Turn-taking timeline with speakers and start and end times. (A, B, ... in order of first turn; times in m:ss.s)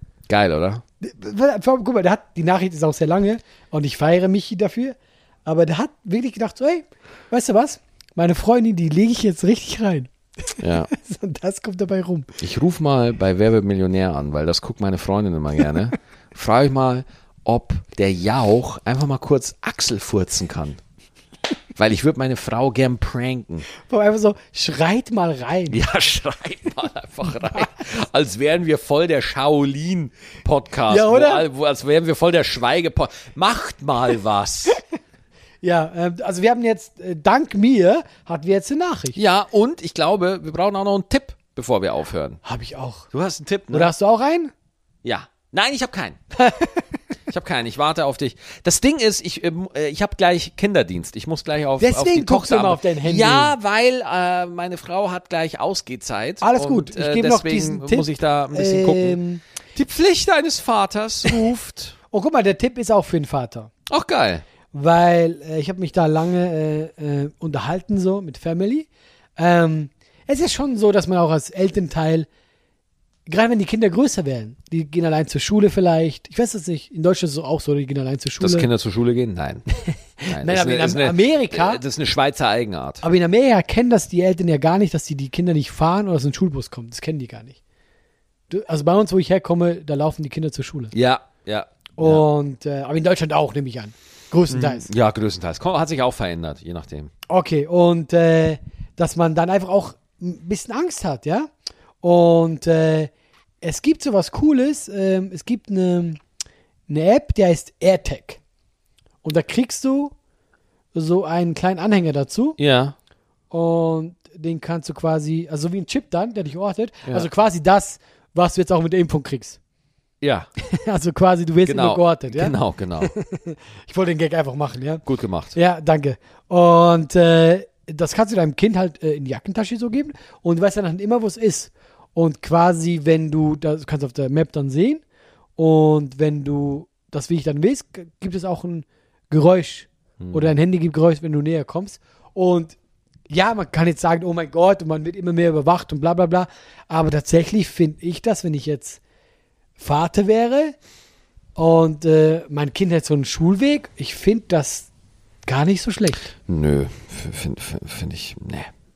0:00.3-0:00.8 A
0:01.0-0:12.3 B
0:10.6-0:10.9 A
0:12.4-0:20.8 A
0:21.8-0:23.7 A
0:23.8-0:25.8 B
0:25.7-0:34.8 A
0:30.9-0:31.4 B
0:35.6-0:39.2 B
0:39.1-0:42.4 A
0:42.4-0:43.1 B
0:43.1-0:43.9 A
0:43.7-0:44.5 B
0:45.0-0:46.2 A
0:46.4-0:46.8 B
0:47.3-0:59.2 A
0:51.8-0:53.5 B
0:56.4-0:59.4 B
0:59.8-1:02.0 A
1:02.1-1:03.7 B
1:03.9-1:04.4 A
1:04.7-1:12.3 B
1:13.3-1:18.7 B
1:18.4-1:19.7 A
1:19.8-1:21.8 B
1:20.3-1:23.0 A
1:23.0-1:27.6 B
1:28.5-1:30.9 B
1:30.9-1:32.2 A
1:32.0-1:34.9 B
1:34.5-1:37.1 A
1:37.3-1:41.5 B
1:42.0-1:43.1 B
1:43.6-1:46.2 B
1:46.9-1:48.4 B
1:49.2-1:50.1 B
1:50.9-1:52.6 B
1:52.6-1:53.0 A
1:53.5-1:59.6 B
2:00.2-2:00.5 A
2:00.6-2:15.0 B
2:01.6-2:03.1 A
2:05.1-2:05.6 A
2:15.6-2:22.8 B
2:20.2-2:20.5 A
2:23.3-2:29.0 B
2:29.8-2:30.8 B
2:31.6-2:34.9 B
2:35.5-2:36.3 B
2:36.5-2:38.7 A